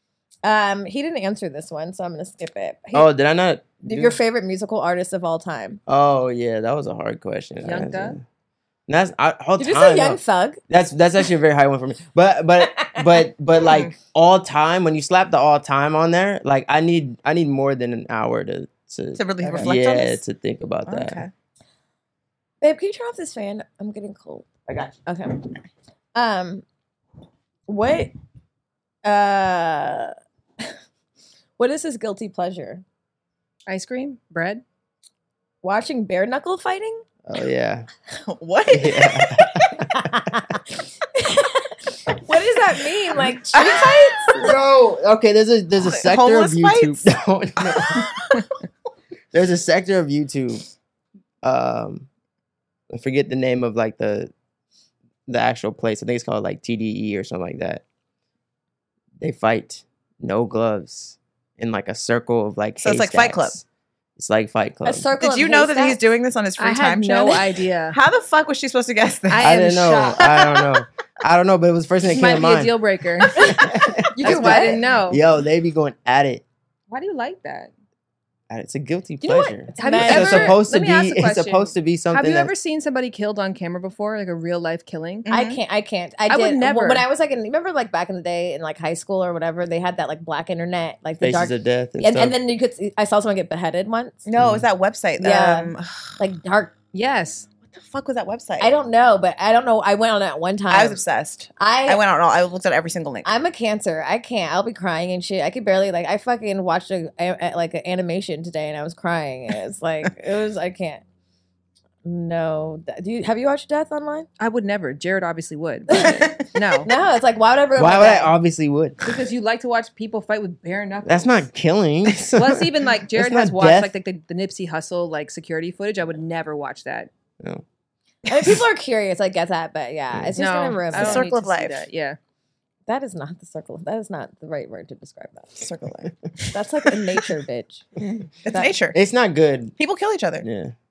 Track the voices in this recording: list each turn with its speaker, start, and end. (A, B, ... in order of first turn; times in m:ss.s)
0:00.4-0:03.1 A
0:02.9-0:04.2 B
0:03.8-0:05.8 A
0:05.9-0:08.2 B
0:07.6-0:08.2 C
0:08.9-0:21.2 B
0:09.6-0:10.6 A
0:12.8-0:13.0 A
0:19.2-0:20.2 D
0:20.8-0:21.3 D
0:22.6-0:25.5 A
0:26.1-0:26.6 A
0:27.7-0:28.1 A
0:29.0-0:30.7 A
0:31.6-0:32.8 A
0:33.7-0:34.6 C
0:35.6-0:37.0 A
0:37.2-0:37.9 B
0:38.2-0:39.4 D
0:38.7-0:40.3 B
0:39.9-0:40.4 A
0:41.1-0:44.4 A
0:43.5-0:44.5 D
0:44.3-0:48.1 B
0:45.8-0:48.4 D
0:49.3-0:50.6 B
0:51.4-0:52.1 B
0:52.9-0:54.3 B
0:55.3-0:57.8 B
0:59.2-1:03.6 B
1:02.8-1:03.6 D
1:04.2-1:05.1 B
1:04.8-1:06.0 A
1:05.2-1:09.6 D
1:06.6-1:08.0 C
1:09.3-1:10.4 C
1:09.4-1:12.8 B
1:10.2-1:10.6 D
1:12.0-1:13.6 C
1:13.3-1:16.4 B
1:13.4-1:13.6 A
1:14.2-1:14.8 A
1:14.2-1:15.2 C
1:16.9-1:17.7 C
1:18.5-1:22.5 B
1:19.2-1:20.6 A
1:19.8-1:25.3 C
1:25.2-1:25.6 D
1:25.3-1:34.2 A
1:26.3-1:27.0 C
1:31.2-1:32.4 B
1:34.2-1:36.1 D
1:34.4-1:34.6 B
1:35.2-1:36.7 A
1:36.9-1:37.5 C
1:37.7-1:38.7 D
1:38.6-1:41.0 A
1:40.7-1:43.3 D
1:41.6-1:42.0 A
1:43.2-1:51.0 A
1:52.0-1:54.3 A
1:54.4-1:56.9 C
1:56.8-1:58.3 A
1:57.8-1:59.0 B
1:59.0-2:01.5 C
2:01.0-2:03.9 B
2:02.3-2:07.1 C
2:08.3-2:11.3 A
2:10.4-2:12.2 C
2:10.9-2:11.8 D
2:12.9-2:15.6 A
2:15.6-2:16.1 D
2:16.5-2:17.9 A
2:18.4-2:19.0 D
2:18.5-2:18.7 A
2:18.9-2:19.8 B
2:19.8-2:20.4 D
2:20.4-2:20.7 B